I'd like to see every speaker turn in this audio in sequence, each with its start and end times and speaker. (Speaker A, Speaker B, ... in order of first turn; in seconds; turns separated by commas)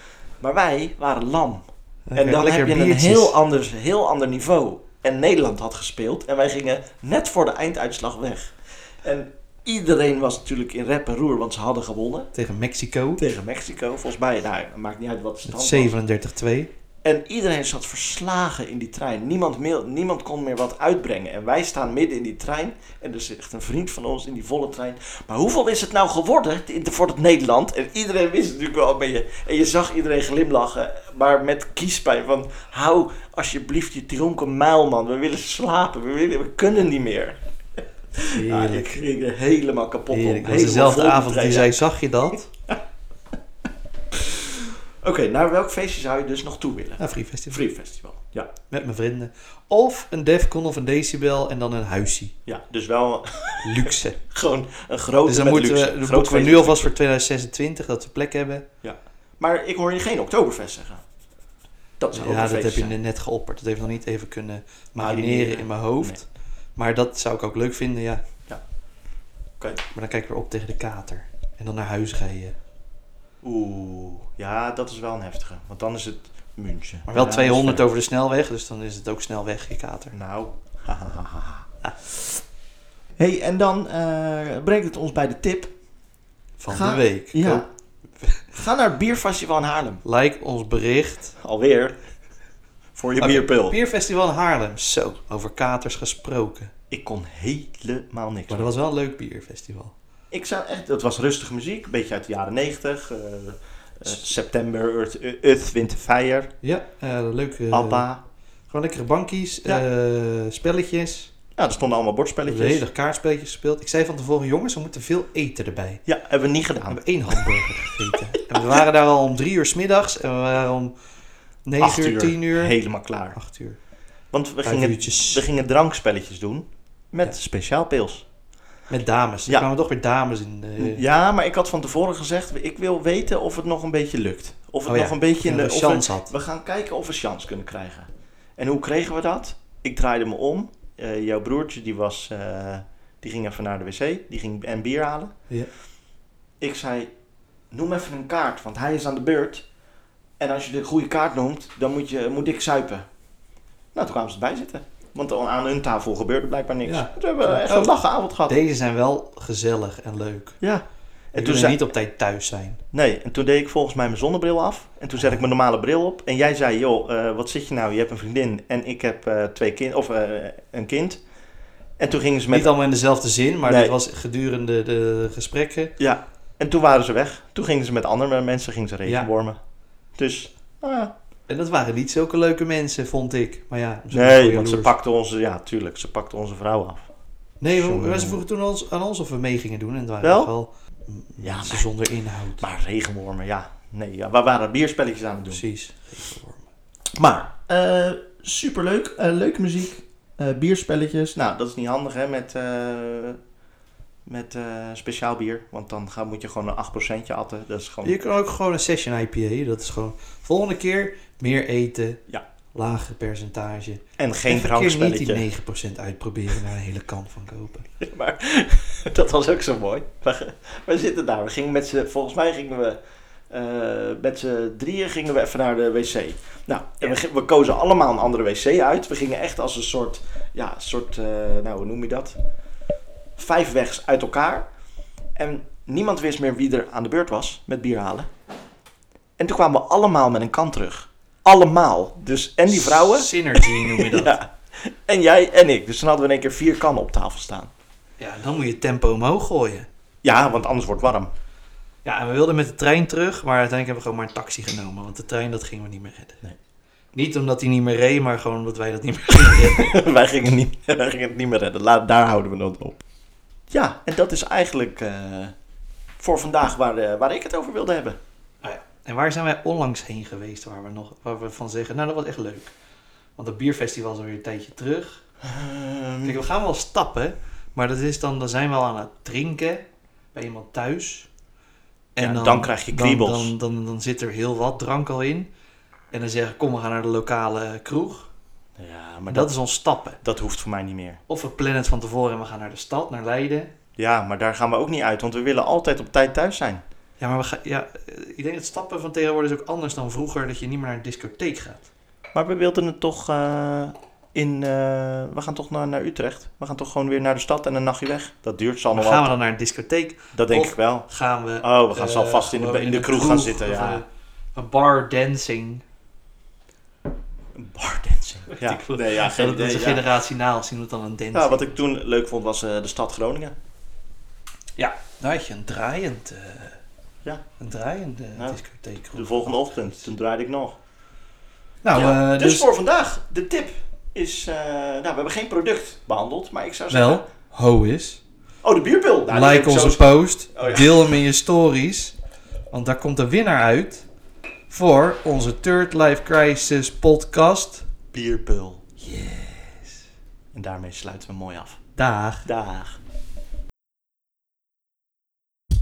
Speaker A: 0.4-12.3, Speaker B: 2.1-3.3, Speaker B: 12.3-13.2, Speaker A: 13.2-15.9, Speaker B: 15.5-16.7, Speaker A: 17.0-37.4, Speaker A: 38.1-41.7, Speaker B: 38.3-38.9, Speaker B: 40.1-42.5, Speaker A: 44.1-48.5, Speaker B: 47.0-47.6, Speaker B: 48.7-52.3, Speaker A: 52.5-56.9, Speaker B: 53.6-54.2, Speaker B: 55.2-58.6, Speaker A: 58.8-61.0, Speaker A: 62.0-63.0, Speaker B: 62.1-68.2, Speaker A: 65.0-66.2, Speaker B: 69.9-72.5, Speaker A: 73.4-77.8, Speaker B: 77.1-80.1, Speaker A: 80.1-81.7, Speaker A: 83.2-85.7, Speaker B: 86.6-87.6, Speaker A: 86.7-87.6, Speaker A: 88.5-90.0, Speaker B: 90.0-91.3, Speaker A: 91.4-92.0, Speaker A: 92.9-93.8, Speaker B: 93.2-96.7, Speaker A: 96.9-98.7, Speaker B: 98.5-99.9, Speaker A: 100.3-106.5, Speaker B: 106.6-108.0, Speaker A: 107.7-108.2, Speaker B: 108.7-111.3, Speaker A: 111.5-112.8, Speaker B: 112.4-116.0, Speaker A: 116.0-118.8, Speaker B: 116.9-120.9, Speaker B: 121.6-122.7, Speaker A: 121.8-123.4, Speaker B: 123.3-123.8, Speaker A: 124.3-128.2, Speaker B: 124.6-125.4, Speaker B: 128.9-131.0, Speaker A: 130.8-145.3, Speaker B: 134.8-136.3, Speaker A: 146.6-147.1, Speaker A: 147.7-149.7, Speaker A: 150.4-153.1, Speaker A: 153.9-158.6, Speaker B: 156.8-157.9, Speaker B: 158.5-160.6, Speaker A: 160.6-161.8, Speaker B: 161.3-162.8, Speaker A: 162.9-171.2, Speaker A: 172.0-172.7, Speaker B: 172.5-175.9, Speaker A: 173.7-173.9, Speaker A: 176.0-179.6, Speaker B: 179.0-179.3, Speaker A: 180.2-181.1, Speaker B: 181.5-184.9, Speaker A: 184.1-187.1, Speaker B: 187.6-192.6, Speaker A: 187.7-188.4, Speaker A: 190.2-190.5, Speaker A: 191.4-191.9, Speaker A: 192.6-195.6, Speaker B: 195.5-196.7, Speaker A: 197.1-203.4, Speaker A: 204.2-208.1, Speaker B: 208.0-212.2, Speaker B: 212.7-217.9, Speaker A: 214.2-215.4, Speaker A: 218.0-232.4, Speaker A: 233.3-234.7, Speaker A: 235.3-238.3, Speaker A: 239.4-247.7, Speaker B: 242.7-244.3, Speaker B: 248.2-249.9, Speaker A: 250.2-251.3, Speaker B: 252.0-256.4, Speaker B: 257.1-259.9, Speaker A: 259.3-263.0, Speaker A: 263.7-265.5, Speaker A: 266.2-268.2, Speaker B: 268.6-272.7, Speaker B: 273.4-275.2, Speaker A: 275.4-276.4, Speaker B: 276.2-281.3, Speaker B: 282.1-285.5, Speaker A: 282.2-283.5, Speaker B: 286.1-288.3, Speaker A: 288.8-289.6, Speaker B: 289.3-290.2, Speaker A: 290.2-291.2, Speaker B: 291.3-293.7, Speaker A: 294.0-296.8, Speaker B: 297.2-301.9, Speaker A: 302.3-309.3, Speaker B: 308.9-315.8, Speaker A: 310.3-311.1, Speaker A: 311.6-314.0, Speaker A: 317.5-320.1, Speaker B: 318.5-321.8, Speaker A: 321.3-323.5, Speaker B: 324.8-326.8, Speaker B: 327.6-330.0, Speaker A: 329.1-330.8, Speaker B: 331.8-332.7, Speaker A: 331.9-337.2, Speaker B: 336.9-338.2, Speaker A: 338.6-341.2, Speaker B: 339.3-342.1, Speaker B: 342.7-344.1, Speaker B: 344.7-347.9, Speaker A: 348.1-348.8, Speaker B: 349.0-350.0, Speaker A: 350.5-351.8, Speaker B: 352.0-352.5, Speaker A: 352.4-353.0